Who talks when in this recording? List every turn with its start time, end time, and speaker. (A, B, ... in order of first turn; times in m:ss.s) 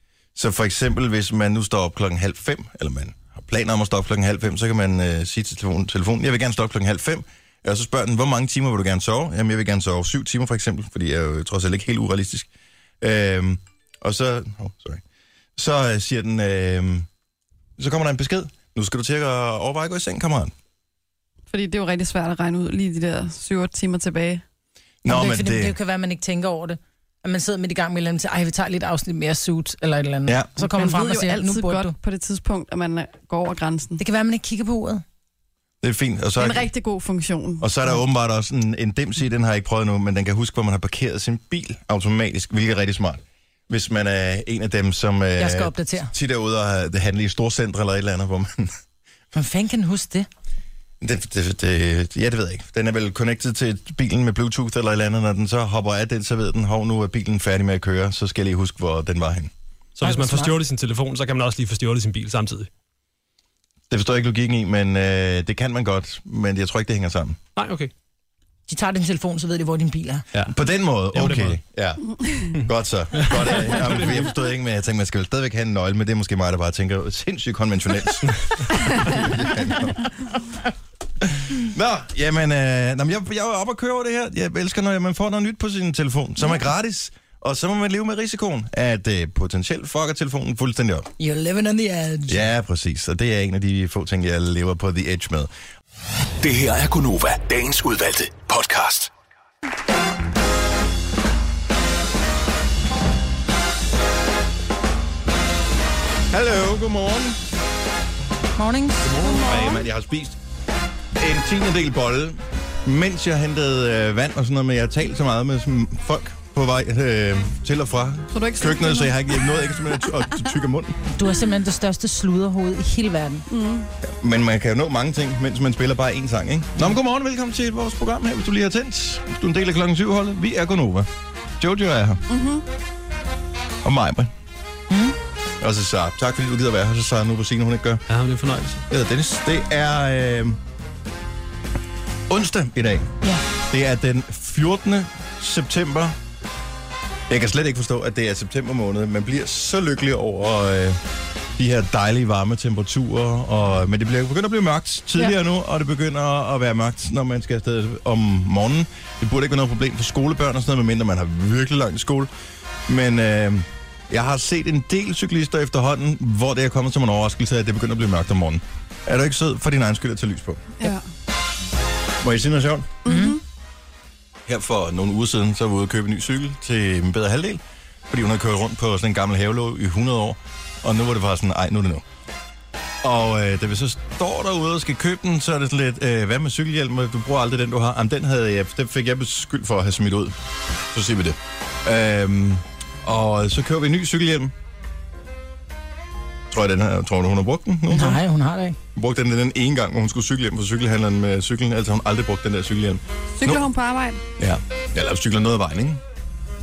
0:00.3-0:12.5 A
0:13.0-0:15.0 A
0:15.6-0:17.1 A
0:17.8-0:20.5 A
0:21.5-0:24.4 B
0:25.0-0:25.7 A
0:25.1-0:31.9 C
0:30.6-0:34.0 B
0:34.0-0:35.0 C
0:35.8-0:36.7 A
0:36.4-0:37.7 B
0:37.6-0:48.8 A
0:45.4-0:46.1 C
0:49.3-0:50.3 C
0:51.0-0:59.5 A
1:00.0-1:02.7 D
1:00.0-1:00.5 C
1:03.9-1:07.4 A
1:07.6-1:07.9 D
1:08.7-1:10.2 C
1:10.5-1:20.1 A
1:11.1-1:11.6 D
1:13.2-1:14.2 D
1:21.2-1:31.1 A
1:31.2-1:32.4 C
1:32.3-1:35.5 A
1:36.4-1:39.1 E
1:46.3-1:47.4 A
1:48.6-1:49.1 C
1:49.1-1:49.8 B
1:49.2-1:50.4 A
1:51.2-2:01.0 A
1:58.3-1:59.2 B
2:01.1-2:03.4 C
2:03.5-2:03.9 B
2:04.0-2:12.2 A
2:12.3-2:12.6 B
2:13.8-2:14.3 A
2:14.9-2:15.2 C
2:15.6-2:18.0 A
2:18.1-2:18.8 D
2:18.9-2:20.6 A
2:22.3-2:23.1 A
2:23.7-2:26.2 A
2:27.3-2:31.0 A
2:31.6-2:42.3 A
2:42.9-2:50.9 A
2:52.2-2:53.0 A
2:53.0-2:53.4 B
2:53.1-2:53.4 C
2:54.4-3:02.0 A
3:03.0-3:10.4 A
3:10.9-3:14.5 A
3:16.5-3:18.2 A
3:17.9-3:18.8 C
3:18.9-3:23.6 A
3:23.4-3:24.2 B
3:24.4-3:26.0 A